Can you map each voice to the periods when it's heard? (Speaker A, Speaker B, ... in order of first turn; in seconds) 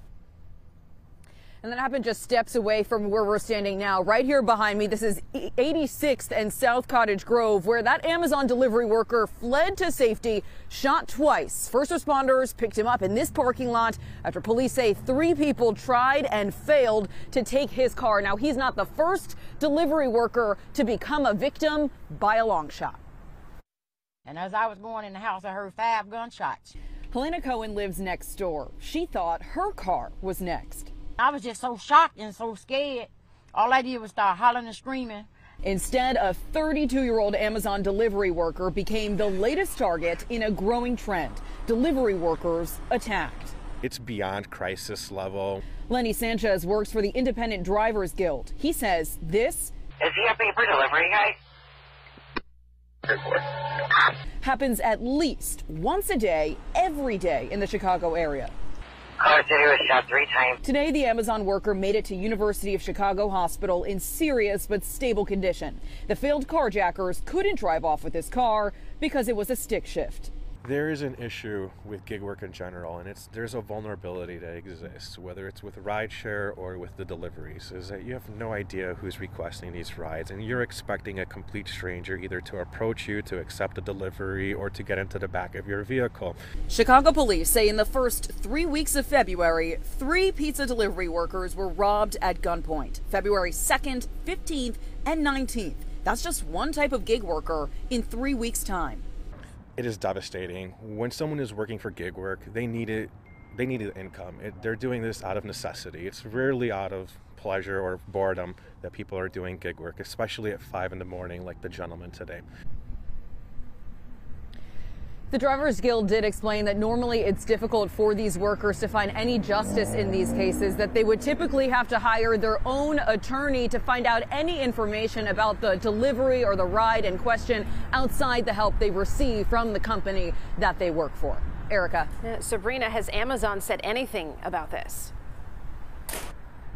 Speaker A: 1.6-23.0, 27.1-30.9, 35.6-43.6, 45.9-49.7, 54.4-58.5, 60.6-70.3, 86.7-99.0, 115.3-132.1
Speaker B: 24.2-26.7, 31.2-35.3
Speaker C: 43.8-45.6, 70.6-86.4, 99.8-112.4
Speaker D: 50.0-51.4, 53.1-53.5, 59.2-60.6
Speaker E: 132.2-135.1